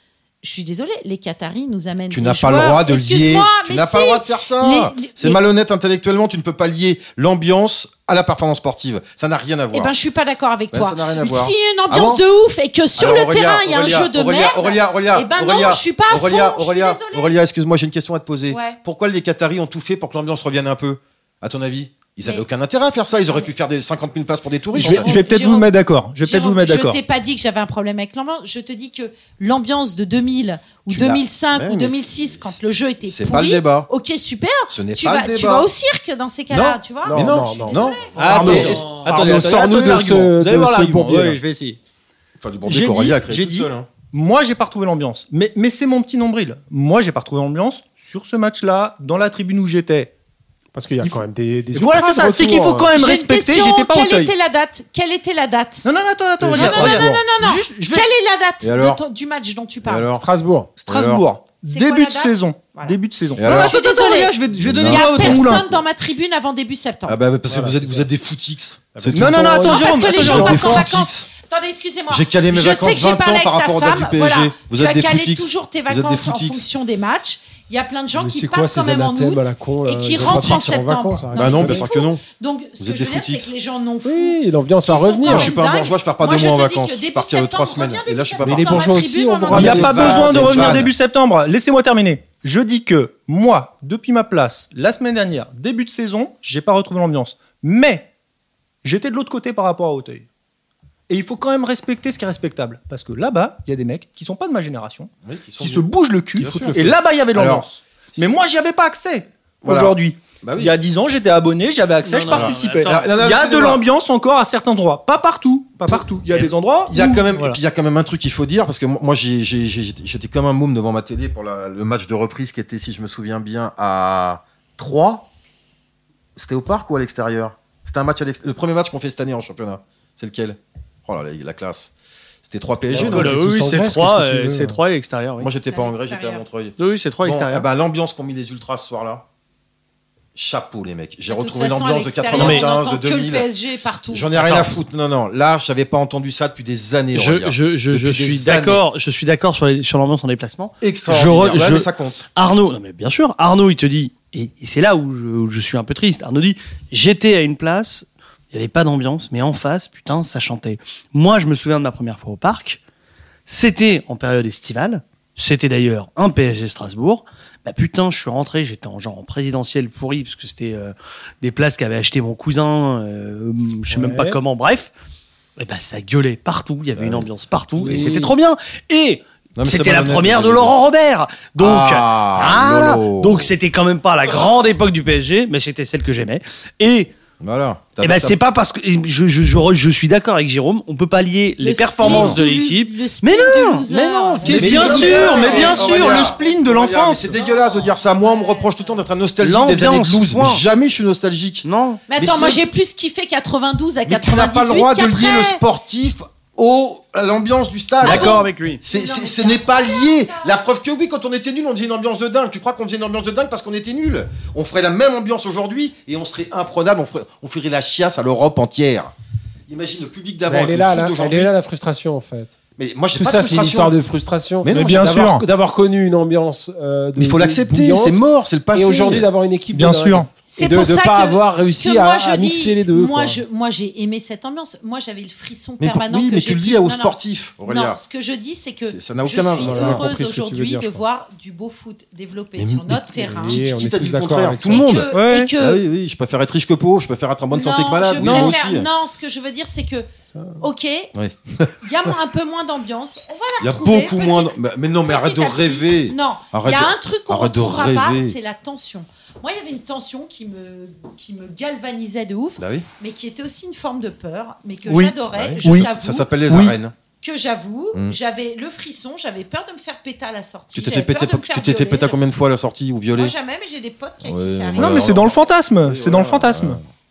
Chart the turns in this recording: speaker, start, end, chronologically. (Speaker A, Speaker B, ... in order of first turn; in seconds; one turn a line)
Speaker A: 0.4-5.4
Speaker B: 2.1-9.9
Speaker A: 9.7-17.4
Speaker B: 10.7-12.2
Speaker B: 13.0-25.2
Speaker A: 18.5-18.8
Speaker A: 24.7-38.7
Speaker C: 24.8-27.0
Speaker B: 30.9-33.9
Speaker B: 34.7-35.7
Speaker B: 36.5-39.5
Speaker D: 37.0-41.4
Speaker C: 38.1-41.8
Speaker B: 42.4-43.9
Speaker C: 42.6-50.1
Speaker D: 50.7-52.9
Speaker C: 51.0-54.3
Speaker A: 52.9-55.9
Speaker C: 55.8-58.1
Speaker D: 56.4-57.2
Speaker A: 56.5-60.1
Speaker B: 58.6-59.0
Speaker B: 59.8-60.3
Speaker D: 60.1-60.8
Speaker C: 60.8-65.7
Speaker B: 60.9-61.2
Speaker A: 61.7-67.2
Speaker B: 63.4-63.8
Speaker B: 64.5-65.8
Speaker B: 67.0-71.3
Speaker D: 67.5-68.0
Speaker D: 68.9-69.6
Speaker C: 69.1-71.1
Speaker A: 69.6-90.7
Speaker D: 70.2-70.7
Speaker B: 72.1-76.6
Speaker D: 78.1-81.8
Speaker B: 80.3-80.7
Speaker B: 81.3-82.2
Speaker B: 82.8-83.5
Speaker D: 84.0-85.5
Speaker B: 84.9-88.9
Speaker D: 88.4-90.7
Speaker B: 89.5-90.9
Speaker C: 89.5-98.1
Speaker C: 98.8-100.3
Speaker C: 101.1-117.6
Speaker B: 105.2-107.7
Speaker B: 109.6-110.7
Speaker E: 112.0-113.1
Speaker B: 112.3-113.8
Speaker B: 116.9-125.3
Speaker B: 126.3-131.9
Speaker B: 132.4-133.4
Speaker D: 132.9-134.8
Speaker E: 133.0-135.5
Speaker B: 135.4-139.2
Speaker A: 135.7-136.4
Speaker E: 136.8-137.7
Speaker B: 140.3-143.5
Speaker A: 141.3-144.6
Speaker E: 142.3-142.7
Speaker B: 144.1-148.8
Speaker E: 144.4-144.7
Speaker E: 147.1-162.8
Speaker B: 150.8-152.2
Speaker E: 163.5-174.9
Speaker D: 173.9-174.4
Speaker E: 175.6-187.1
Speaker B: 176.9-177.3
Speaker D: 177.8-178.3
Speaker B: 177.8-178.2
Speaker B: 179.6-180.7
Speaker B: 181.6-183.5
Speaker B: 187.4-188.4
Speaker E: 188.0-195.7
Speaker A: 191.6-196.5
Speaker B: 192.0-192.4
Speaker C: 194.4-197.3
Speaker B: 194.5-202.6
Speaker A: 197.2-199.0
Speaker E: 199.4-200.6
Speaker E: 201.6-202.0
Speaker A: 202.1-205.6
Speaker B: 204.1-219.1
Speaker E: 208.0-208.8
Speaker A: 208.0-210.6
Speaker B: 219.7-221.5
Speaker D: 220.4-222.6
Speaker B: 222.8-224.0
Speaker D: 223.2-228.2
Speaker B: 224.6-225.2
Speaker C: 224.7-225.4
Speaker B: 227.2-229.3
Speaker D: 228.7-233.4
Speaker C: 229.7-230.3
Speaker A: 230.5-243.6
Speaker B: 235.8-238.0
Speaker B: 238.9-240.0
Speaker D: 239.6-241.0
Speaker B: 242.6-248.9
Speaker D: 243.3-245.0
Speaker A: 244.6-245.8
Speaker C: 245.1-245.5
Speaker A: 247.5-250.1
Speaker C: 248.2-248.5
Speaker D: 250.3-250.6
Speaker A: 250.6-251.1
Speaker B: 251.1-251.7
Speaker A: 251.8-266.3
Speaker B: 253.6-258.4
Speaker B: 262.6-262.9
Speaker C: 264.9-265.9
Speaker B: 265.3-266.9
Speaker C: 266.5-266.8
Speaker A: 267.2-272.2
Speaker B: 270.7-273.3
Speaker A: 273.1-275.2
Speaker B: 274.2-276.8
Speaker C: 274.8-276.8